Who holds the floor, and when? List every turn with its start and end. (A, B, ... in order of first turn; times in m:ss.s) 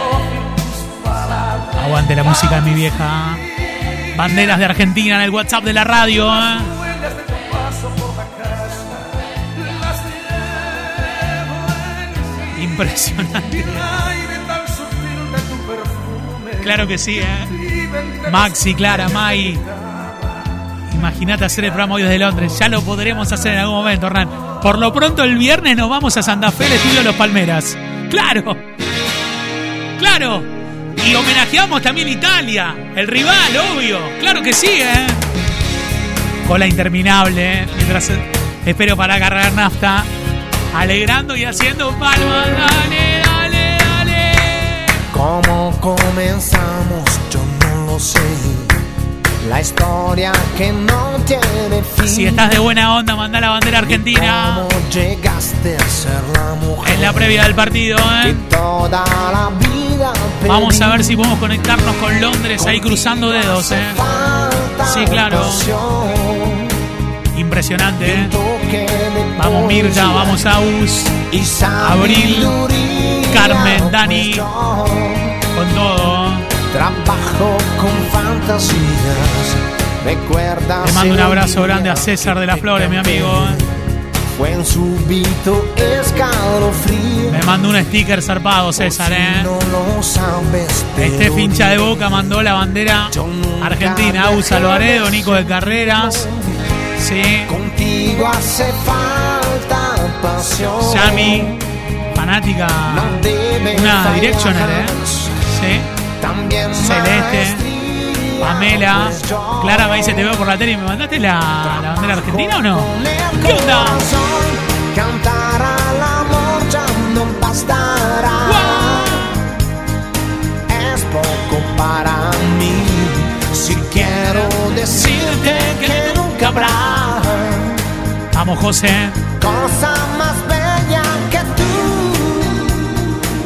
0:01.7-0:03.4 A
0:04.1-0:06.7 A
0:12.5-0:13.8 A
0:16.6-0:17.5 A
0:18.2-0:19.6 A
0:20.9-0:28.6 A
0:30.0-0:30.5 A
0:31.0-0:35.2 A
0:36.4-0:40.1 A
0:40.7-0:44.9 A
0:45.1-0:48.8 B
0:49.4-0:52.6 B
0:52.0-0:54.6 A
0:53.8-0:57.5 B
0:56.8-0:58.4 A
0:58.2-1:01.2 B
1:00.4-1:04.0 A
1:02.6-1:06.8 B
1:04.8-1:05.6 A
1:07.3-1:08.3 A
1:08.0-1:10.4 B
1:09.4-1:11.1 A
1:11.3-1:15.4 B
1:11.8-1:12.5 A
1:13.3-1:14.4 A
1:15.5-1:16.5 A
1:16.7-1:23.7 B
1:20.8-1:23.6 A
1:24.3-1:27.4 B
1:27.3-1:29.5 A
1:28.8-1:32.3 B
1:31.0-1:36.3 A
1:33.1-1:36.3 B
1:37.0-1:37.5 A
1:37.5-1:41.6 B
1:40.8-1:41.5 A
1:42.1-1:45.0 A
1:42.9-1:45.4 B
1:45.5-1:45.9 A
1:46.2-1:50.3 B
1:46.8-1:47.6 A
1:48.4-1:54.0 A
1:51.6-1:59.2 B
1:58.4-1:59.2 A
2:00.7-2:07.8 B
2:04.1-2:07.0 A
2:08.3-2:09.2 A
2:09.4-2:12.9 B